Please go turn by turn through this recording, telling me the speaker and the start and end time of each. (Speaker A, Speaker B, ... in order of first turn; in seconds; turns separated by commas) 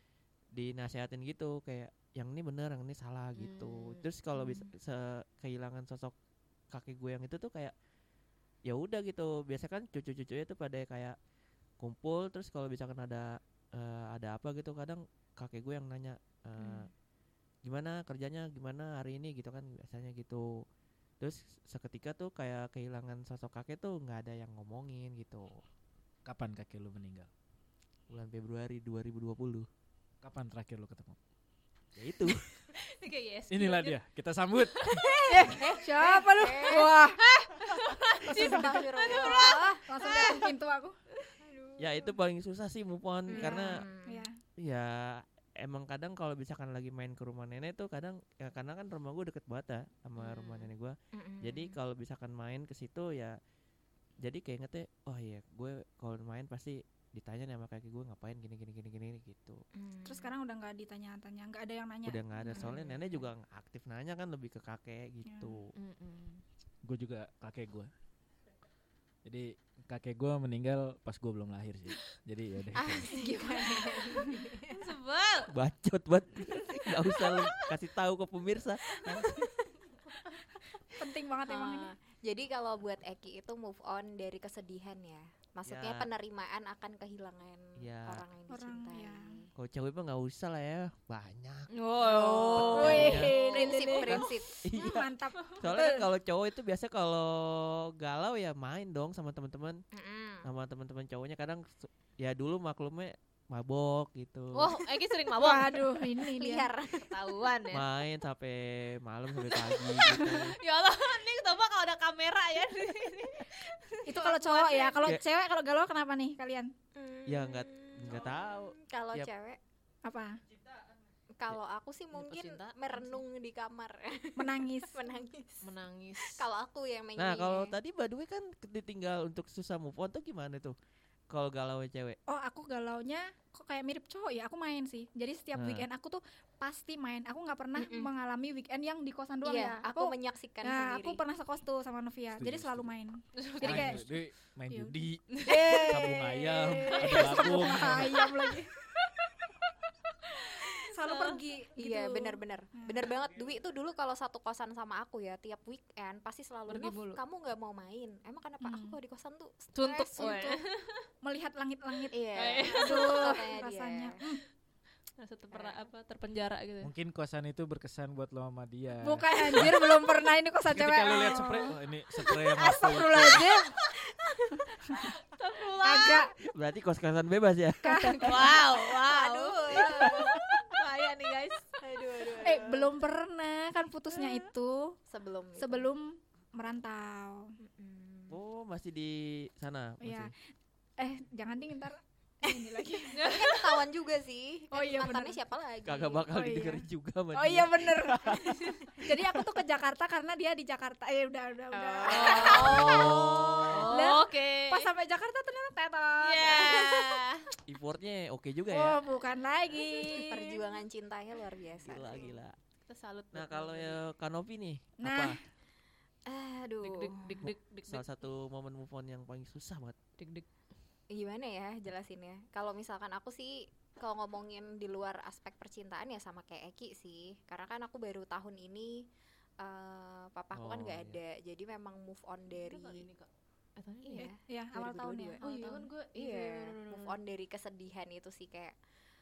Speaker A: 0.5-6.1, Speaker B: 3.4-4.0, Speaker C: 4.3-4.7, Speaker A: 6.7-7.7, Speaker A: 8.7-11.2, Speaker A: 11.8-16.9, Speaker C: 16.6-16.9, Speaker A: 17.6-20.6, Speaker A: 21.2-25.6, Speaker D: 26.2-27.3, Speaker A: 28.1-29.7, Speaker D: 30.2-31.2, Speaker A: 31.9-32.5, Speaker B: 32.7-34.0, Speaker D: 33.5-35.0, Speaker B: 34.6-35.1, Speaker C: 35.0-36.9, Speaker E: 35.2-37.5, Speaker B: 37.5-40.5, Speaker C: 38.2-40.4, Speaker E: 38.2-41.0, Speaker C: 41.4-42.1, Speaker A: 41.8-43.8, Speaker C: 43.3-44.3, Speaker E: 43.3-44.4, Speaker A: 44.6-53.4, Speaker B: 50.2-50.6, Speaker C: 51.1-51.8, Speaker A: 54.2-59.6, Speaker C: 59.7-60.3, Speaker E: 60.0-62.2, Speaker A: 62.0-65.7, Speaker C: 62.4-63.2, Speaker E: 65.2-65.6, Speaker B: 65.8-66.4, Speaker D: 66.8-67.9, Speaker D: 69.2-73.1, Speaker C: 72.7-74.9, Speaker E: 73.0-74.4, Speaker B: 74.7-75.5, Speaker A: 75.5-79.5, Speaker B: 76.5-77.4, Speaker E: 81.0-81.9, Speaker C: 81.5-89.5, Speaker A: 85.7-86.1, Speaker A: 87.8-88.2, Speaker E: 88.5-89.3, Speaker A: 89.5-93.3, Speaker B: 91.7-94.1, Speaker C: 92.0-94.6, Speaker E: 92.7-96.1, Speaker A: 94.0-99.8, Speaker C: 99.9-100.5, Speaker A: 100.4-104.8, Speaker B: 104.5-106.0, Speaker E: 105.3-106.7, Speaker C: 106.2-107.3, Speaker B: 107.0-107.8, Speaker A: 107.7-110.5, Speaker B: 109.8-115.0, Speaker E: 114.0-116.7, Speaker C: 116.9-119.6, Speaker A: 117.3-119.3, Speaker E: 120.0-120.4, Speaker C: 121.4-127.7, Speaker B: 122.1-123.2, Speaker E: 124.4-125.0, Speaker B: 125.6-126.5, Speaker A: 127.2-130.7, Speaker A: 131.3-132.2, Speaker E: 132.3-144.1, Speaker A: 135.5-135.8, Speaker C: 137.8-138.1, Speaker C: 139.4-141.2, Speaker D: 142.4-142.9, Speaker B: 143.3-144.0, Speaker D: 143.6-148.2, Speaker E: 144.7-149.1, Speaker E: 150.3-153.1, Speaker B: 151.0-151.4, Speaker C: 151.8-160.6, Speaker B: 156.7-157.2, Speaker E: 158.6-158.9, Speaker B: 159.8-161.1, Speaker E: 160.2-160.6, Speaker E: 161.2-164.4, Speaker C: 162.1-164.2, Speaker B: 162.3-163.4, Speaker B: 165.2-166.9, Speaker C: 165.5-165.9, Speaker D: 166.8-170.0, Speaker E: 169.0-173.8, Speaker D: 170.7-173.5, Speaker C: 174.1-174.6, Speaker E: 174.5-175.1, Speaker B: 175.0-176.3, Speaker E: 175.8-176.3, Speaker A: 176.4-178.2, Speaker E: 177.8-178.4, Speaker C: 177.9-180.4, Speaker B: 178.1-182.4, Speaker C: 181.8-182.9, Speaker E: 182.4-185.0, Speaker C: 185.1-185.9, Speaker E: 185.6-187.5, Speaker C: 187.6-188.4, Speaker A: 188.3-190.3, Speaker E: 190.0-190.3, Speaker E: 191.0-193.3, Speaker C: 192.4-196.3, Speaker B: 193.1-193.8, Speaker E: 194.7-195.4, Speaker A: 195.8-198.6, Speaker E: 196.3-203.2, Speaker C: 201.7-203.8, Speaker B: 202.0-203.2, Speaker A: 202.5-203.9, Speaker B: 203.7-204.9, Speaker E: 203.8-207.2, Speaker B: 206.2-207.4, Speaker A: 207.7-209.0, Speaker E: 208.7-210.6, Speaker C: 210.1-212.3, Speaker A: 211.8-212.6, Speaker B: 212.9-214.0, Speaker A: 213.3-215.4, Speaker E: 215.0-215.4, Speaker C: 216.3-217.5, Speaker B: 216.8-218.0, Speaker A: 217.5-219.9, Speaker B: 220.2-220.5, Speaker C: 221.1-229.1, Speaker C: 229.6-233.1, Speaker A: 230.5-231.2, Speaker B: 232.5-234.3, Speaker C: 234.0-238.8, Speaker E: 234.2-235.4, Speaker B: 235.4-237.2